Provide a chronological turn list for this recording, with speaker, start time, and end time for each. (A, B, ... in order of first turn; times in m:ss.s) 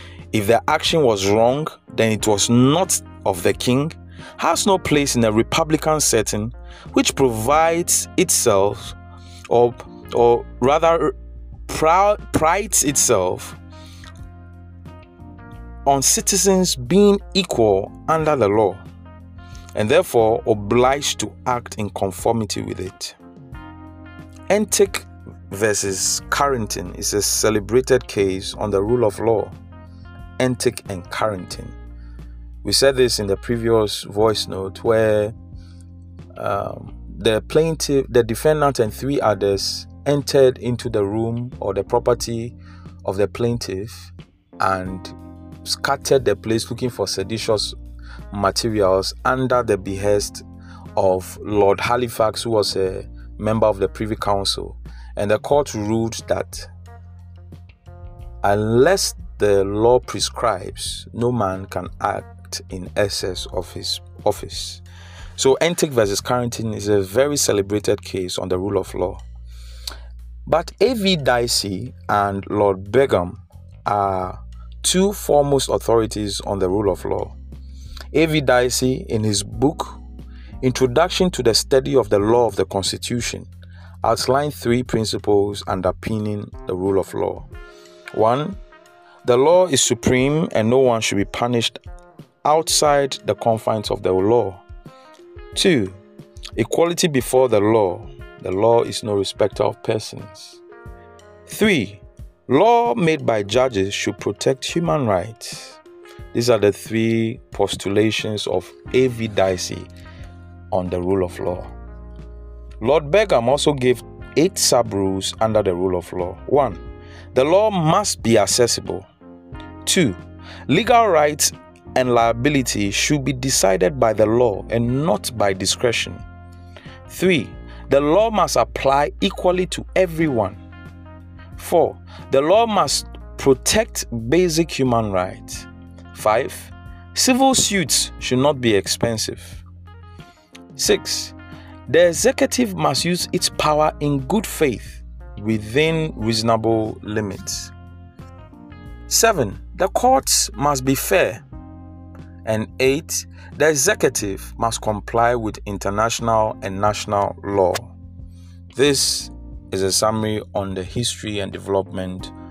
0:00.3-0:09.0 A
0:09.5-0:11.2 A
0:11.7-0:13.6 A
0:15.9-0:18.8 A
0:19.8-0:23.2 A
0:24.5-0:29.6 A
0:30.4-0:31.8 A
0:32.6-0:35.4 A
0:36.4-0:47.8 A
0:48.3-0:56.7 A
0:58.4-1:04.8 A
1:05.4-1:09.2 A
1:10.5-1:17.4 A
1:18.1-1:20.0 A
1:20.6-1:23.5 A
1:24.0-1:27.5 A
1:28.1-1:28.6 A
1:29.2-1:31.8 A
1:32.4-1:34.6 A
1:35.5-1:36.0 A
1:36.6-1:40.6 A
1:41.5-1:45.8 A
1:46.3-1:49.9 A
1:50.7-1:51.7 A
1:52.8-1:56.8 A
1:57.3-1:59.1 A
1:59.8-2:06.2 A
2:07.1-2:10.6 A
2:11.6-2:19.6 A
2:20.8-2:21.4 A
2:21.9-2:27.7 A
2:29.1-2:31.4 A
2:32.4-2:37.9 A
2:38.7-2:42.3 A